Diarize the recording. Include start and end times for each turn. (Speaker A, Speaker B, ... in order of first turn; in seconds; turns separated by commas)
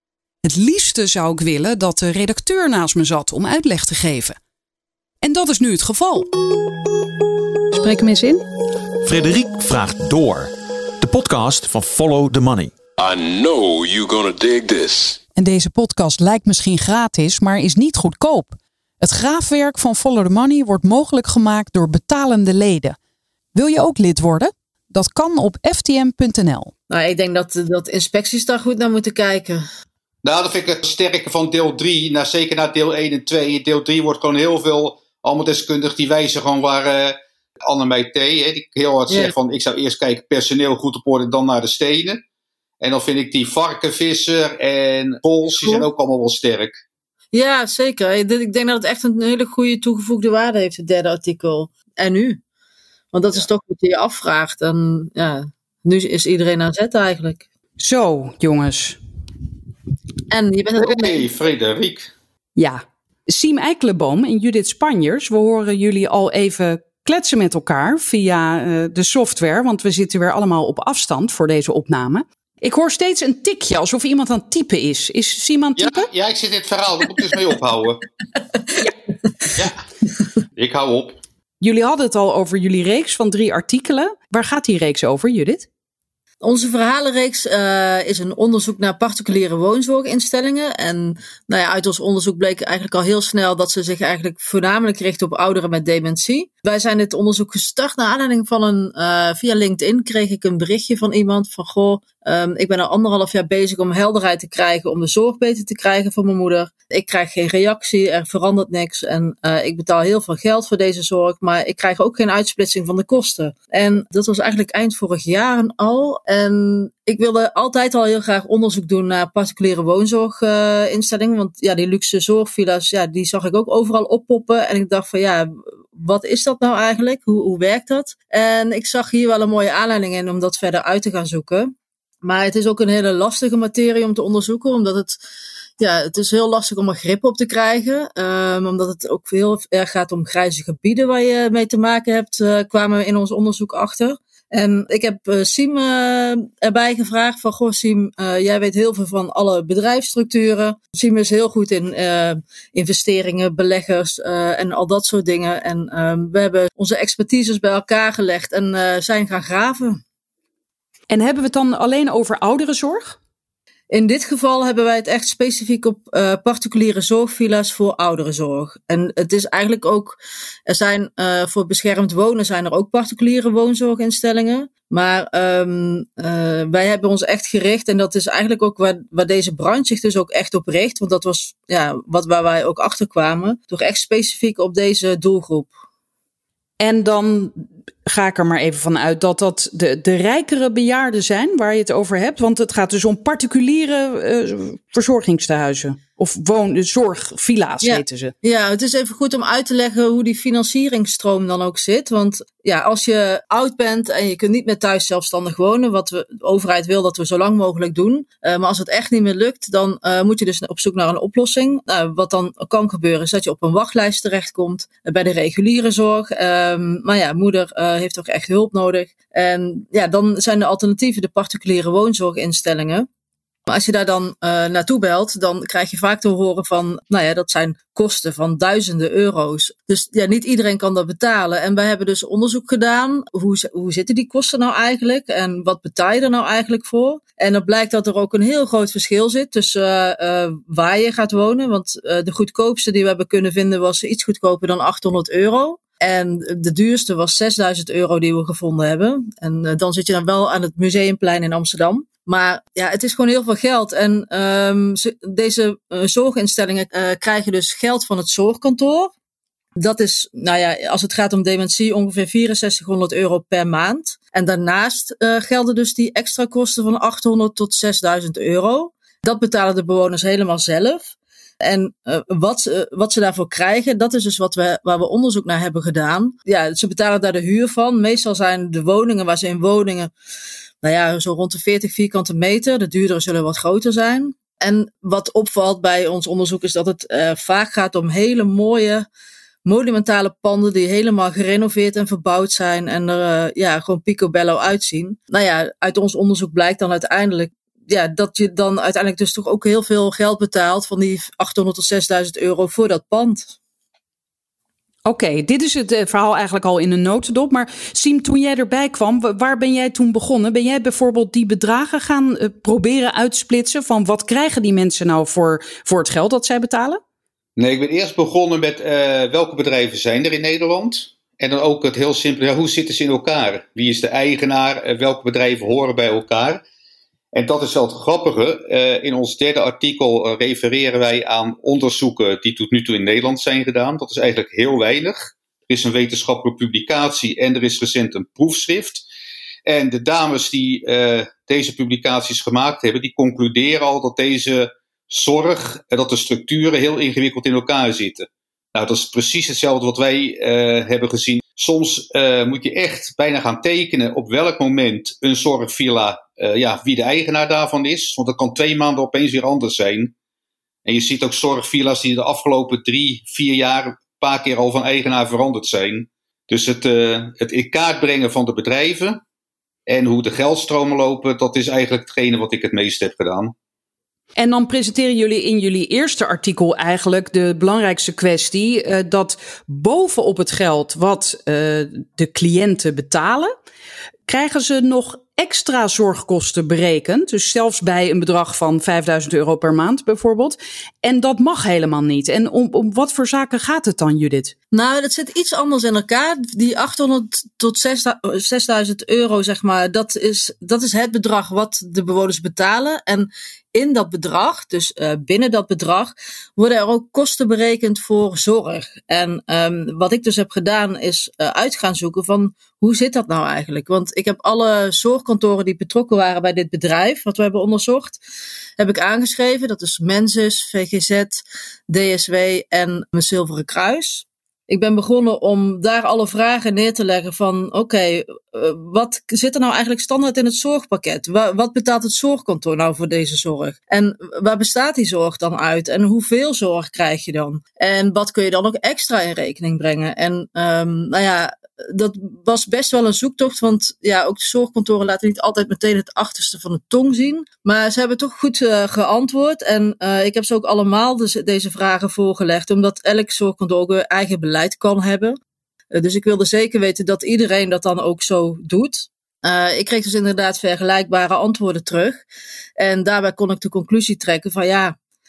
Speaker A: 0.4-4.4, Speaker A: 5.2-6.3, Speaker A: 7.7-8.4, Speaker B: 9.0-12.8, Speaker C: 13.0-15.2, Speaker A: 15.3-23.0, Speaker A: 23.5-26.7, Speaker D: 26.9-29.6, Speaker E: 30.2-42.2, Speaker D: 39.1-39.3, Speaker E: 42.8-46.8, Speaker D: 45.6-45.9, Speaker D: 47.3-52.4, Speaker D: 53.1-57.4, Speaker A: 57.8-59.0, Speaker D: 60.3-61.3, Speaker E: 60.8-62.1, Speaker A: 62.5-76.1, Speaker E: 75.8-78.0, Speaker E: 79.5-79.8, Speaker E: 80.5-81.2, Speaker A: 81.6-85.7, Speaker D: 86.4-131.7, Speaker D: 132.2-135.2, Speaker D: 135.8-160.0, Speaker A: 161.1-163.2, Speaker D: 163.9-185.8, Speaker A: 186.8-198.3, Speaker D: 197.8-223.1, Speaker D: 223.7-259.1, Speaker D: 259.8-280.1, Speaker D: 280.8-289.1, Speaker D: 289.6-303.5, Speaker A: 305.0-317.0, Speaker E: 317.6-326.6, Speaker E: 327.3-339.0, Speaker E: 339.6-360.1, Speaker E: 360.8-369.2, Speaker E: 369.9-373.5, Speaker A: 374.4-383.5, Speaker A: 384.3-394.5, Speaker D: 394.7-418.2, Speaker D: 418.8-455.4, Speaker D: 455.9-462.2, Speaker D: 462.8-464.9